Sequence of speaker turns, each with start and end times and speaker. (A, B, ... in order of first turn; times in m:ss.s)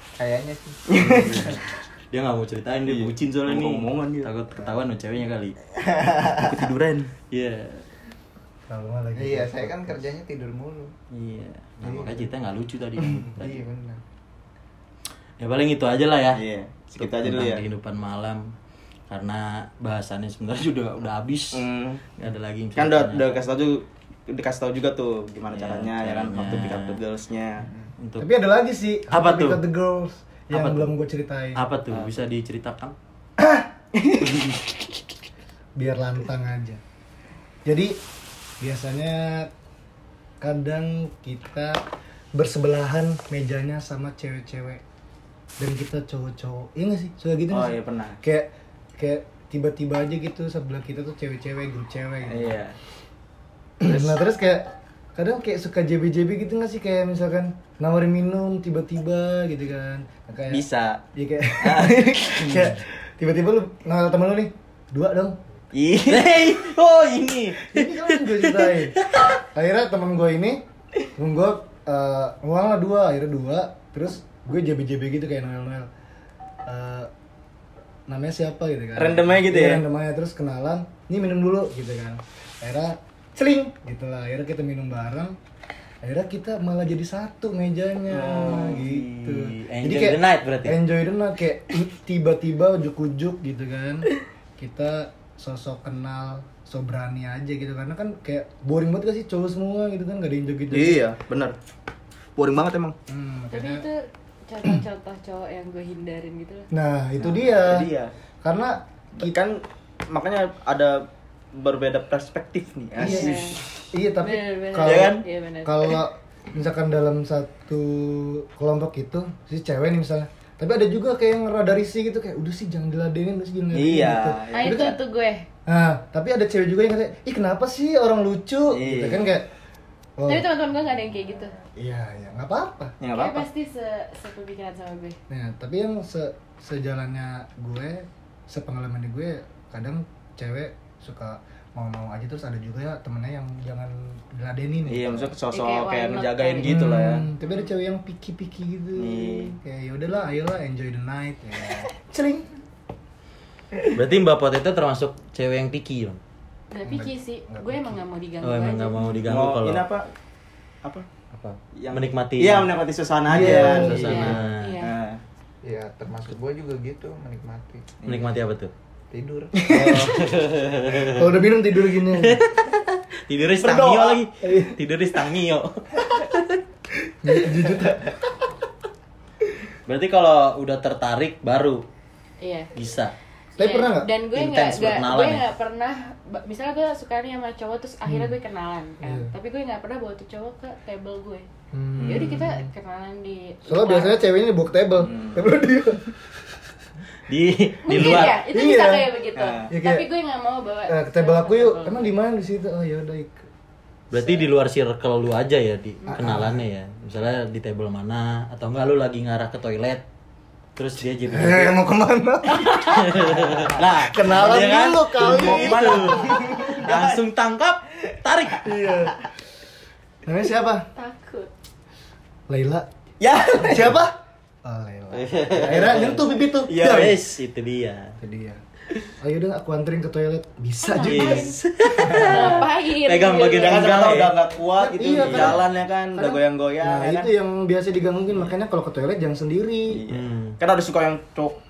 0:00.2-0:01.1 A
0:00.9-0:01.6 B
0:01.0-0:05.6 C
0:02.9-0:04.3 B
0:06.0-0:06.3 A
0:06.2-0:07.1 B
0:07.3-0:07.8 C
0:08.7-0:10.0 D
0:09.2-0:10.9 A
0:11.1-0:13.6 C
0:11.8-0:12.3 A
0:13.3-0:14.0 A
0:15.4-0:16.4 C
0:16.3-0:17.6 B
0:17.0-0:18.5 C
0:19.1-0:23.4 C
0:21.5-0:22.0 B
0:22.8-0:27.7 B
0:25.5-0:27.0 C
0:28.0-0:28.3 C
0:28.2-0:31.6 D
0:29.1-0:29.6 C
0:30.5-0:30.9 C
0:31.5-0:32.9 C
0:31.9-0:32.3 B
0:33.4-0:33.7 D
0:33.9-0:34.5 B
0:35.8-0:36.8 D
0:37.6-0:38.0 D
0:38.6-0:39.5 D
0:40.4-0:44.8 D
0:45.6-0:52.6 D
0:47.5-0:48.2 B
0:52.2-0:52.8 B
0:53.8-1:05.4 D
1:00.5-1:01.0 B
1:01.6-1:02.8 B
1:05.7-1:06.4 B
1:06.0-1:09.3 C
1:07.7-1:10.6 D
1:11.2-1:15.9 D
1:16.6-1:17.1 D
1:18.1-1:25.4 D
1:19.0-1:19.8 B
1:26.0-1:41.0 D
1:28.1-1:29.3 B
1:29.3-1:30.8 C
1:40.7-1:41.5 B
1:42.4-1:43.0 B
1:43.1-1:43.8 D
1:43.5-1:46.7 E
1:46.7-1:47.9 D
1:47.2-1:48.1 B
1:48.4-1:49.3 D
1:49.2-1:53.8 B
1:53.0-1:53.6 E
1:53.0-2:04.9 D
1:54.2-1:56.0 E
1:54.8-1:55.2 B
2:03.7-2:05.0 B
2:04.5-2:05.5 E
2:05.6-2:09.5 D
2:08.7-2:09.3 B
2:10.2-2:10.5 D
2:10.2-2:11.6 E
2:11.6-2:12.9 D
2:13.0-2:13.5 B
2:13.1-2:15.2 E
2:15.3-2:25.3 D
2:24.9-2:27.3 B
2:25.5-2:26.7 E
2:26.6-2:32.4 D
2:29.0-2:29.5 B
2:33.9-2:36.2 C
2:36.7-2:39.0 E
2:36.8-2:38.0 D
2:38.4-2:39.8 C
2:39.2-2:40.1 B
2:41.3-2:42.7 C
2:41.7-2:45.2 B
2:43.3-2:44.4 D
2:43.3-2:44.8 C
2:44.0-2:44.9 E
2:45.6-2:47.9 A
2:48.0-2:48.7 C
2:49.1-2:50.0 A
2:49.7-2:50.3 D
2:49.7-2:51.4 C
2:51.0-2:52.4 D
2:52.0-2:56.6 C
2:53.6-2:54.2 B
2:54.4-2:54.8 D
2:57.2-2:58.2 D
2:59.9-3:01.8 C
3:02.4-3:02.7 E
3:02.7-3:03.1 C
3:03.6-3:04.1 D
3:03.6-3:11.5 E
3:04.3-3:05.4 C
3:08.0-3:08.3 D
3:09.0-3:09.3 D
3:11.7-3:12.7 D
3:12.0-3:12.4 B
3:12.0-3:14.2 E
3:13.6-3:16.2 D
3:15.0-3:15.4 B
3:17.3-3:18.4 C
3:17.9-3:22.1 E
3:17.9-3:19.1 D
3:19.4-3:19.7 B
3:19.7-3:20.1 D
3:20.8-3:23.5 D
3:24.1-3:30.0 C
3:26.1-3:26.6 D
3:30.8-3:31.8 C
3:31.3-3:36.7 D
3:32.5-3:38.8 C
3:35.3-3:37.2 B
3:38.6-3:39.2 D
3:40.2-3:40.9 D
3:41.0-3:41.5 E
3:42.5-3:42.9 D
3:43.2-3:44.0 B
3:43.6-3:47.1 D
3:45.1-3:46.2 C
3:46.0-3:47.2 B
3:46.8-3:48.2 C
3:48.2-3:48.6 D
3:49.2-3:51.6 D
3:50.8-3:54.0 E
3:51.0-3:54.4 C
3:52.0-3:52.6 B
3:53.6-3:57.3 B
3:54.8-3:55.6 D
3:55.1-3:55.6 C
3:56.2-4:00.0 D
3:59.9-4:01.6 B
4:00.1-4:00.6 C